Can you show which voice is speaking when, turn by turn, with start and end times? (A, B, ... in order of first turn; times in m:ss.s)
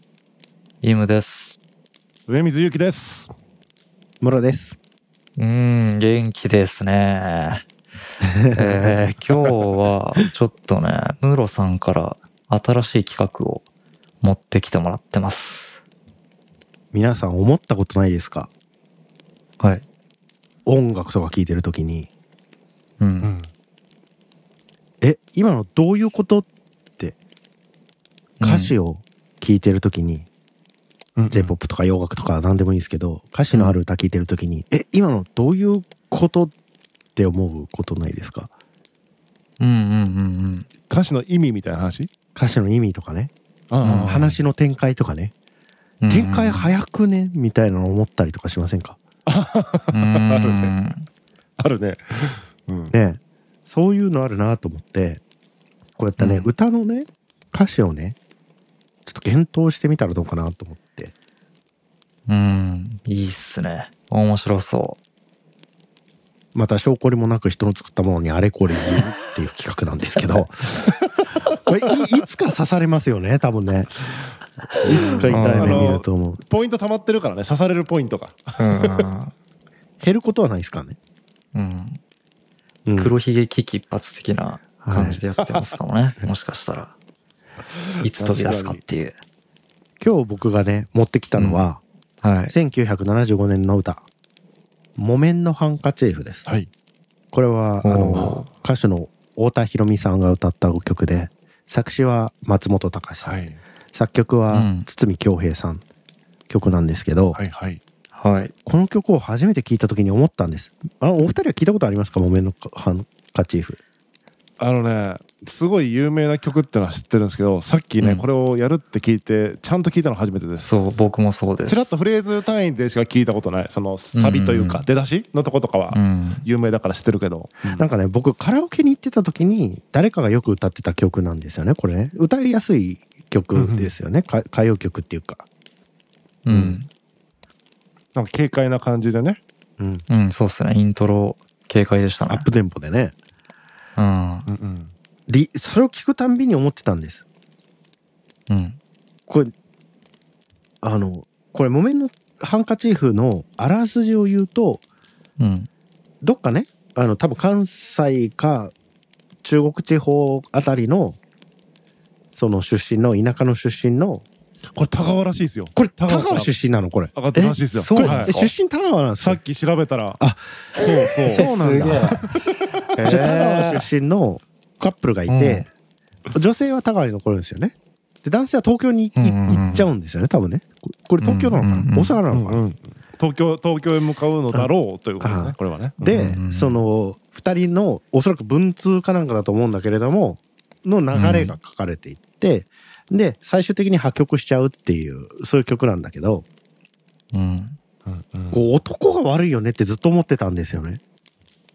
0:00.8-0:01.6 A
0:02.3-0:03.3 B
0:04.2-0:04.8 C
0:05.4-0:07.6 A
0:08.2-0:09.0 C
0:08.5-0:13.7 A
0:14.2-0:15.8 A
0:16.9-0:18.5 C
0:19.6-0:19.8 A
0:20.6-0:22.1 C
0:23.0-0:23.3 A
0:23.2-0:23.5 B
0:25.0-0:27.2 C
0:28.4-0:28.7 A
0:28.4-0:30.3 C
0:31.2-0:31.6 B
0:31.3-0:36.5 C
0:37.2-0:38.5 C
0:39.6-0:40.7 A
0:40.9-0:42.1 B
0:42.4-0:43.3 C
0:43.7-0:44.4 B
0:43.8-0:44.2 A
0:44.1-0:45.3 C
0:46.0-0:46.7 A
0:46.1-0:49.0 C
0:49.3-0:50.7 B
0:49.9-0:51.1 A
0:51.6-0:52.9 B
0:52.9-0:55.2 C
0:56.0-0:58.2 C
0:56.2-0:56.5 A
0:59.1-1:01.1 C
1:02.3-1:05.0 A
1:06.5-1:10.6 C
1:10.9-1:11.3 B
1:11.6-1:13.9 C
1:14.8-1:16.0 A
1:14.8-1:16.4 C
1:14.9-1:19.1 B
1:18.6-1:19.3 A
1:20.0-1:21.0 C
1:21.5-1:22.0 A
1:22.9-1:23.1 C
1:23.0-1:26.9 A
1:24.8-1:25.2 C
1:25.4-1:25.7 B
1:28.0-1:28.8 B
1:28.0-1:29.2 A
1:30.0-1:31.8 C
1:31.4-1:31.6 A
1:32.2-1:32.5 A
1:32.5-1:34.0 C
1:35.0-1:36.4 C
1:37.3-1:45.8 C
1:37.8-1:38.5 A
1:38.1-1:38.5 B
1:43.2-1:43.6 B
1:44.5-1:44.9 A
1:46.5-1:47.4 C
1:47.4-1:47.8 B
1:48.1-1:48.5 A
1:48.7-1:53.8 C
1:54.6-2:01.0 B
1:58.0-1:58.3 A
2:00.6-2:01.9 A
2:01.7-2:07.9 B
2:04.2-2:04.8 A
2:05.9-2:06.5 A
2:07.7-2:15.5 C
2:13.6-2:13.9 B
2:16.4-2:16.9 A
2:16.5-2:16.8 C
2:18.2-2:19.4 B
2:19.8-2:20.0 C
2:20.1-2:22.5 A
2:22.3-2:23.2 C
2:24.0-2:24.5 A
2:24.5-2:24.9 B
2:25.3-2:27.2 C
2:28.5-2:28.8 A
2:29.3-2:29.5 C
2:30.8-2:34.8 C
2:35.4-2:35.7 A
2:36.2-2:38.7 C
2:39.4-2:41.2 C
2:42.3-2:44.3 C
2:44.7-2:46.5 B
2:45.8-2:47.1 C
2:47.1-2:48.4 B
2:47.3-2:48.5 A
2:48.0-2:49.4 C
2:49.2-2:50.2 B
2:50.8-2:52.3 A
2:50.8-2:52.3 B
2:51.3-2:52.2 C
2:52.9-2:53.9 A
2:53.0-2:55.7 C
2:55.3-2:55.7 A
2:56.3-3:02.6 C
2:59.2-2:59.8 A
2:59.5-2:59.8 B
3:01.2-3:02.2 A
3:02.3-3:06.4 B
3:05.2-3:16.5 C
3:06.1-3:06.8 A
3:11.1-3:11.6 A
3:17.3-3:17.8 A
3:18.1-3:18.6 B
3:18.5-3:21.0 C